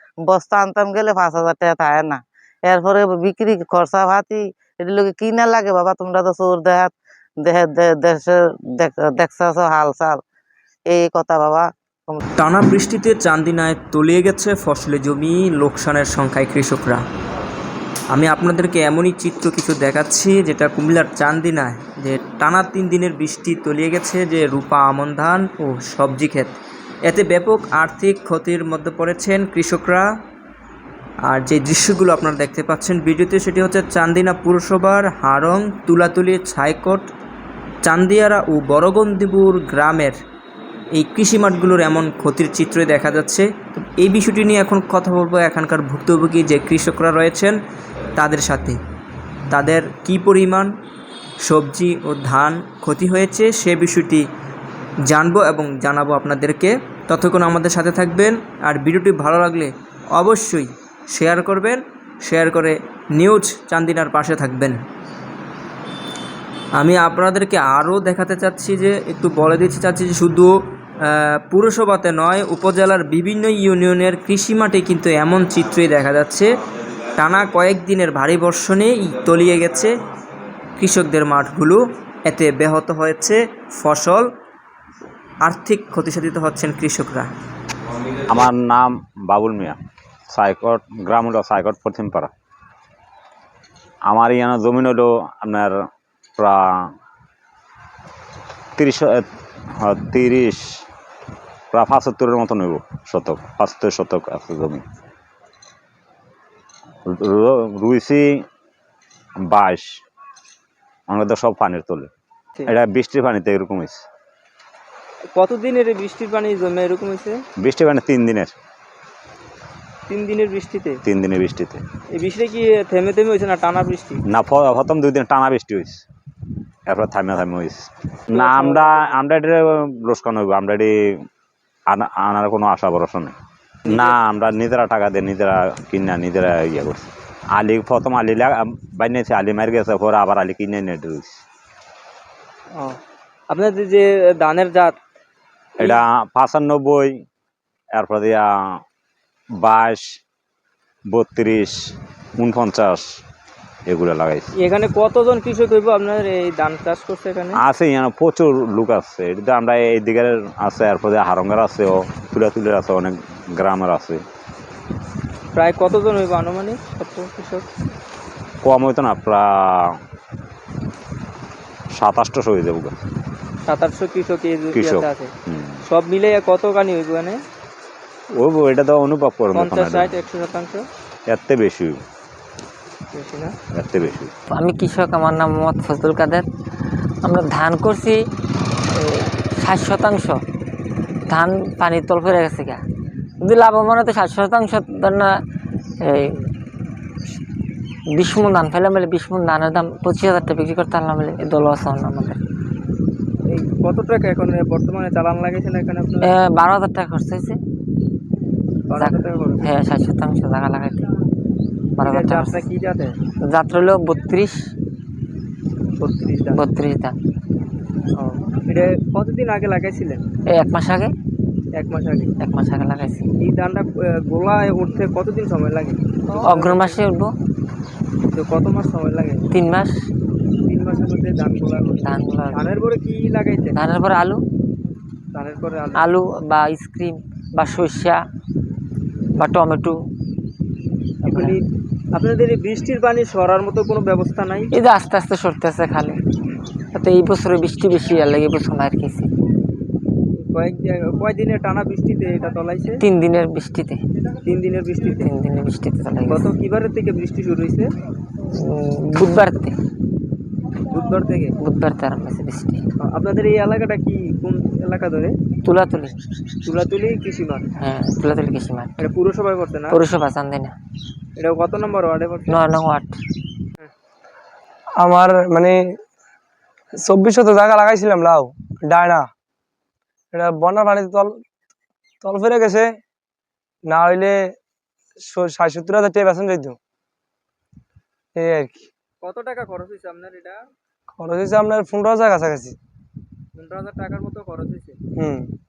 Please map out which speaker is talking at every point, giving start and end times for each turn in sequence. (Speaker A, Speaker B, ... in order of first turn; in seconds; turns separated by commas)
Speaker A: 0.2-10.2, Speaker A: 10.9-12.2, Speaker B: 12.4-17.0, Speaker B: 18.1-30.1, Speaker B: 31.3-37.1, Speaker B: 37.8-40.2, Speaker B: 40.9-47.6, Speaker B: 48.1-48.8, Speaker B: 49.5-50.7, Speaker B: 51.4-54.3, Speaker B: 55.1-64.8, Speaker B: 66.8-76.6, Speaker B: 77.2-80.0, Speaker B: 80.8-84.3, Speaker B: 85.4-87.3, Speaker C: 88.3-89.8, Speaker C: 90.3-92.3, Speaker C: 94.1-95.8, Speaker C: 96.4-96.9, Speaker C: 98.8-99.2, Speaker C: 99.8-100.8, Speaker C: 101.7-104.8, Speaker C: 107.1-108.4, Speaker C: 109.5-109.9, Speaker C: 111.1-112.1, Speaker C: 112.7-114.0, Speaker B: 115.3-117.4, Speaker C: 117.6-118.5, Speaker B: 120.1-121.0, Speaker C: 121.0-121.8, Speaker B: 122.1-124.2, Speaker C: 124.3-126.0, Speaker C: 126.9-131.2, Speaker B: 128.3-129.2, Speaker C: 131.9-133.3, Speaker B: 133.9-134.2, Speaker C: 133.9-141.4, Speaker B: 143.5-145.0, Speaker C: 145.8-147.2, Speaker C: 147.9-148.8, Speaker C: 149.6-150.1, Speaker C: 151.1-151.8, Speaker C: 152.4-153.1, Speaker C: 153.9-154.5, Speaker B: 154.6-157.6, Speaker C: 157.6-164.2, Speaker B: 165.6-167.7, Speaker C: 168.6-170.0, Speaker C: 172.0-172.9, Speaker B: 173.7-175.3, Speaker C: 174.8-175.8, Speaker B: 175.9-177.4, Speaker C: 178.4-180.1, Speaker B: 179.5-180.9, Speaker C: 181.3-182.0, Speaker B: 183.1-183.6, Speaker C: 183.7-184.3, Speaker D: 184.5-186.5, Speaker D: 187.2-188.2, Speaker D: 189.5-190.4, Speaker D: 191.3-192.8, Speaker D: 193.4-195.4, Speaker D: 196.0-196.4, Speaker D: 198.2-202.4, Speaker B: 203.5-206.3, Speaker D: 206.2-207.6, Speaker B: 208.9-209.7, Speaker D: 209.0-211.1, Speaker D: 212.0-212.7, Speaker B: 212.0-213.2, Speaker D: 213.5-214.7, Speaker B: 216.0-216.6, Speaker D: 216.5-217.2, Speaker B: 218.2-220.2, Speaker D: 220.5-221.1, Speaker B: 221.8-222.3, Speaker D: 222.4-223.3, Speaker B: 223.4-227.0, Speaker D: 226.4-227.3, Speaker B: 228.3-229.5, Speaker D: 229.5-230.0, Speaker B: 230.6-233.8, Speaker D: 232.0-232.7, Speaker D: 233.7-234.4, Speaker B: 235.3-236.1, Speaker D: 236.0-238.2, Speaker D: 239.4-240.0, Speaker D: 241.2-241.6, Speaker B: 241.3-241.6, Speaker B: 242.1-244.7, Speaker D: 244.7-246.2, Speaker D: 246.9-249.3, Speaker B: 250.4-253.0, Speaker D: 253.0-254.0, Speaker B: 254.4-255.3, Speaker D: 255.2-256.5, Speaker B: 256.3-257.9, Speaker D: 258.5-259.8, Speaker B: 260.9-261.6, Speaker D: 261.6-262.8, Speaker B: 263.0-265.4, Speaker D: 265.6-266.2, Speaker B: 266.6-267.7, Speaker D: 267.8-269.0, Speaker B: 269.0-270.0, Speaker D: 269.9-270.8, Speaker B: 271.4-272.6, Speaker D: 272.5-273.2, Speaker E: 275.0-276.0, Speaker E: 277.0-279.3, Speaker E: 280.3-281.4, Speaker E: 282.2-283.0, Speaker E: 283.9-284.6, Speaker E: 285.2-286.8, Speaker E: 288.4-288.9, Speaker B: 289.2-290.6, Speaker E: 291.2-292.8, Speaker B: 293.6-295.0, Speaker E: 295.2-295.5